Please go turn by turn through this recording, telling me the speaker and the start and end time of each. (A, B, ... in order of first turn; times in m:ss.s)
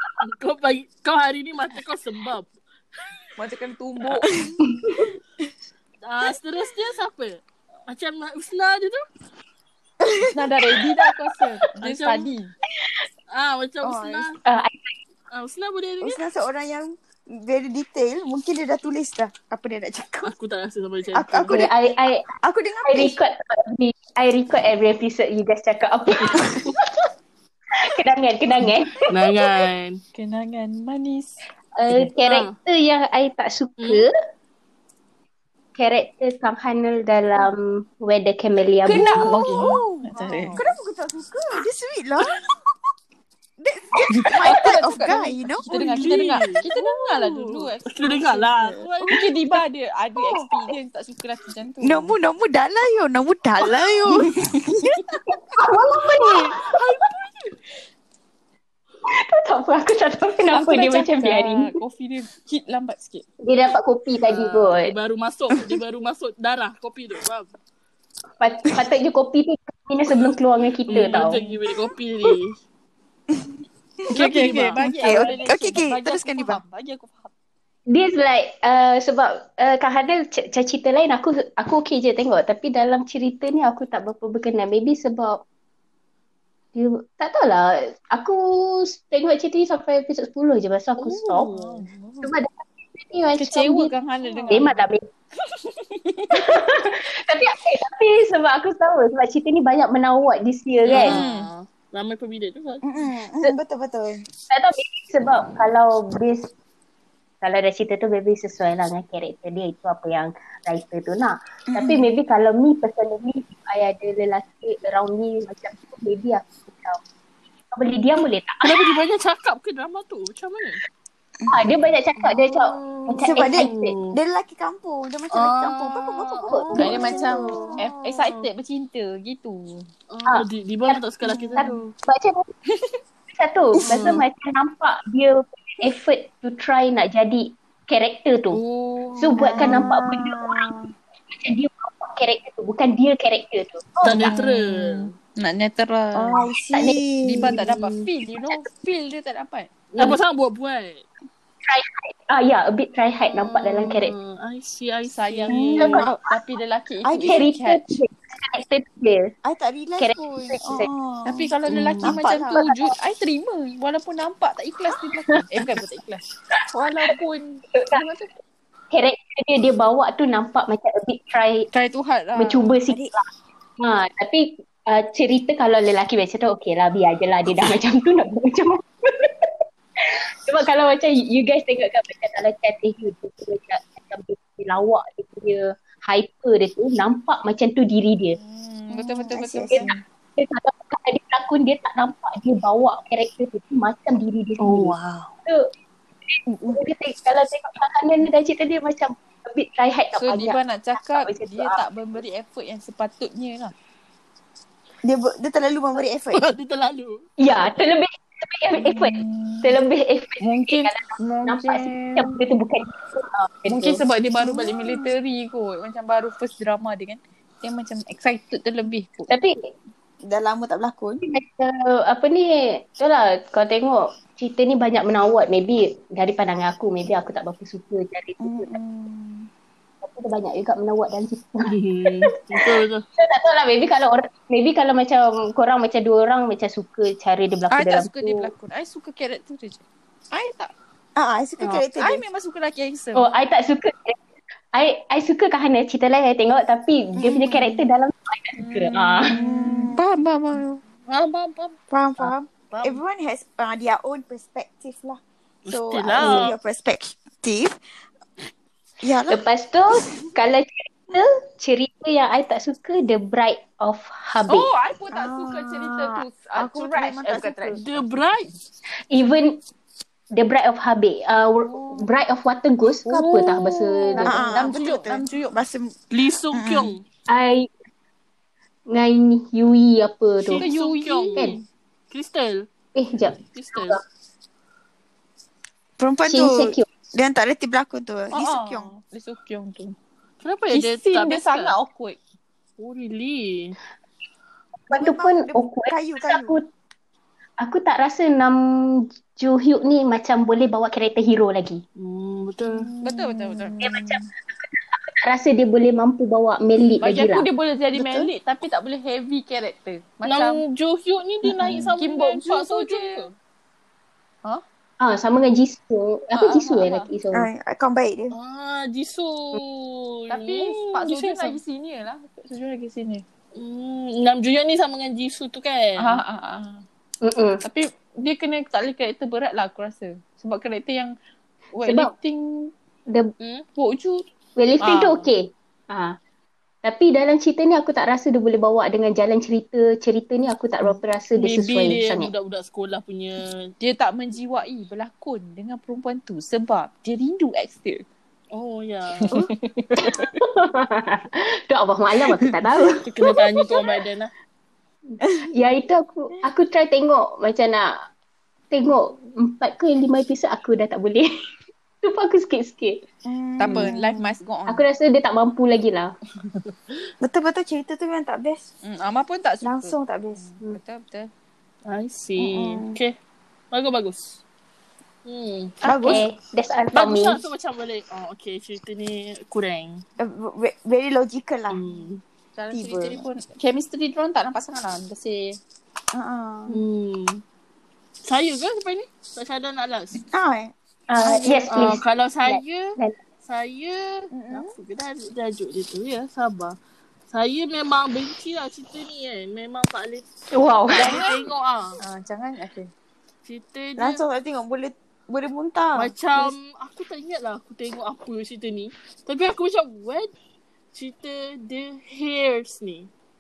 0:00.2-0:02.5 A
0:03.4-0:04.5 B
0:04.6-0:05.1 C
0:06.0-0:09.0 A
0:10.0-0:10.4 D
0:10.3-0:12.5 B
0:11.8-0:12.3 A
0:13.3-0:14.4 A
0:13.8-0:14.3 D
0:14.4-0:15.0 C
0:15.3-0:16.2 A
0:16.0-0:20.3 D
0:20.2-0:21.5 A
0:21.1-0:21.7 D
0:21.5-0:22.2 C
0:22.4-0:23.2 D
0:22.9-0:26.8 C
0:26.2-0:26.7 A
0:27.8-0:29.0 C
0:29.1-0:30.0 A
0:30.1-0:31.4 B
0:31.8-0:34.1 C
0:32.2-0:32.5 A
0:35.8-0:39.4 C
0:38.9-0:41.5 B
0:39.2-0:42.4 D
0:40.1-0:40.7 A
0:43.6-0:45.7 D
0:44.1-0:52.2 B
0:45.7-0:49.6 A
0:50.2-0:50.6 D
0:51.8-0:55.2 D
0:55.5-0:56.9 C
0:56.2-0:57.5 A
0:59.1-1:01.8 C
1:00.5-1:03.2 B
1:03.4-1:05.0 C
1:04.3-1:07.5 A
1:05.5-1:05.8 D
1:08.4-1:11.4 C
1:10.9-1:12.6 A
1:10.9-1:11.6 B
1:14.0-1:16.6 D
1:14.1-1:17.3 B
1:14.1-1:15.9 A
1:17.9-1:25.4 C
1:26.8-1:33.9 C
1:31.0-1:32.3 B
1:33.4-1:34.9 B
1:34.5-1:35.1 C
1:35.7-1:36.6 B
1:36.3-1:41.2 C
1:40.9-1:42.9 A
1:40.9-1:41.5 B
1:42.8-1:44.2 D
1:44.5-1:46.5 C
1:47.4-1:57.0 C
1:51.7-1:52.1 D
1:57.7-1:58.8 C
1:58.6-2:00.8 A
2:01.5-2:03.7 C
2:02.8-2:04.2 A
2:03.1-2:07.9 D
2:05.3-2:08.4 A
2:06.5-2:07.1 C
2:06.8-2:09.9 B
2:10.1-2:11.9 A
2:10.3-2:11.0 C
2:11.4-2:11.7 D
2:11.6-2:12.5 C
2:12.7-2:13.0 B
2:13.3-2:18.6 C
2:13.8-2:14.2 B
2:13.8-2:14.2 A
2:18.5-2:19.9 B
2:19.2-2:20.7 C
2:19.4-2:20.9 D
2:21.3-2:24.4 C
2:24.0-2:25.1 A
2:24.0-2:26.5 B
2:26.2-2:27.6 D
2:26.7-2:27.0 C
2:27.2-2:29.7 B
2:27.6-2:28.1 A
2:29.9-2:31.1 A
2:31.6-2:34.1 C
2:33.3-2:36.0 A
2:35.1-2:38.0 B
2:35.5-2:36.4 D
2:35.8-2:36.1 C
2:37.0-2:37.4 D
2:37.3-2:39.3 C
2:39.4-2:42.6 D
2:40.0-2:40.9 C
2:41.3-2:48.3 B
2:41.7-2:42.2 A
2:42.6-2:42.9 C
2:47.7-2:48.0 C
2:48.9-2:51.7 C
2:51.7-2:52.8 B
2:52.4-3:08.4 C
2:52.9-2:53.2 D
3:08.4-3:10.0 B
3:08.9-3:09.9 D
3:09.7-3:15.0 C
3:14.6-3:15.3 A
3:16.3-3:21.8 C
3:20.2-3:23.7 B
3:25.0-3:26.5 D
3:26.3-3:27.2 A
3:27.4-3:34.0 C
3:28.8-3:29.8 B
3:30.4-3:32.5 B
3:33.7-3:39.3 B
3:34.4-3:35.1 D
3:39.3-3:39.7 C
3:40.2-3:41.2 D
3:41.2-3:48.7 C
3:48.4-3:49.5 D
3:50.0-3:51.7 C
3:51.7-3:53.0 A
3:52.6-3:58.5 C
3:57.7-4:00.7 B
4:01.2-4:02.2 D
4:02.0-4:03.3 B
4:03.1-4:04.2 C
4:04.7-4:09.3 C
4:07.2-4:07.8 B
4:08.6-4:10.8 B
4:09.3-4:10.0 D
4:11.1-4:13.0 A
4:11.9-4:17.8 D
4:15.6-4:16.6 A
4:19.0-4:19.4 D
4:19.3-4:24.7 C
4:24.5-4:28.0 B
4:25.1-4:27.8 D
4:27.8-4:28.5 A
4:29.1-4:29.6 C
4:30.3-4:34.7 C
4:33.0-4:35.6 B
4:34.2-4:35.9 D
4:36.1-4:37.0 A
4:36.5-4:36.9 D
4:37.3-4:37.7 C
4:38.9-4:40.7 C
4:40.5-4:41.6 A
4:40.6-4:41.6 B
4:42.1-4:42.7 A
4:43.0-4:44.0 C
4:43.5-4:44.0 A
4:46.0-4:48.9 D
4:46.3-4:46.9 C
4:48.3-4:50.0 B
4:50.4-4:51.8 A
4:50.7-4:52.2 B
4:52.8-4:53.8 A
4:54.9-4:56.6 C
4:54.9-4:56.6 D
4:57.6-4:58.6 C
4:59.4-5:01.8 C
5:02.0-5:02.9 A
5:02.8-5:04.1 D
5:03.0-5:04.0 B
5:03.8-5:07.5 C
5:07.0-5:10.6 B
5:08.0-5:08.3 D
5:10.3-5:13.3 A
5:11.5-5:13.3 B
5:15.0-5:17.5 C
5:16.4-5:17.1 B
5:17.3-5:18.4 D
5:18.3-5:21.6 A
5:20.3-5:23.2 B
5:23.6-5:26.2 A
5:26.0-5:26.8 B
5:27.2-5:27.6 C
5:27.6-5:31.2 B
5:31.7-5:32.7 B
5:31.8-5:32.1 C
5:33.4-5:33.6 A
5:33.8-5:34.2 B
5:34.6-5:36.2 C
5:34.8-5:35.3 B
5:36.8-5:42.3 C
5:41.4-5:43.7 A
5:43.8-5:48.0 B
5:48.5-5:49.4 A
5:49.2-5:50.3 B
5:50.0-5:53.0 C
5:53.1-5:54.3 A
5:55.1-5:57.9 C
5:58.7-6:01.3 C
6:02.0-6:03.0 C
6:03.2-6:04.3 D
6:03.6-6:04.8 B
6:03.6-6:03.9 C
6:04.7-6:06.1 C
6:07.2-6:08.7 D
6:08.8-6:11.3 B
6:09.6-6:10.5 D
6:11.9-6:13.1 A
6:12.4-6:13.0 D
6:13.7-6:14.4 A
6:15.3-6:15.8 A
6:15.8-6:16.2 D
6:15.8-6:17.4 C
6:16.9-6:20.0 A
6:20.2-6:21.8 D
6:21.7-6:22.2 A
6:22.6-6:25.6 B
6:22.7-6:23.2 D
6:26.1-6:26.8 D
6:26.7-6:27.4 A
6:28.2-6:30.2 A
6:30.3-6:30.7 D
6:31.1-6:33.2 C
6:31.2-6:31.7 D
6:31.7-6:36.8 A
6:34.3-6:34.7 D
6:37.3-6:40.3 A
6:40.5-6:41.2 C
6:40.9-6:42.0 A
6:41.0-6:41.5 B
6:42.0-6:42.9 B
6:43.4-6:44.2 A
6:44.0-6:46.5 D
6:46.0-6:50.3 A
6:50.9-6:53.1 A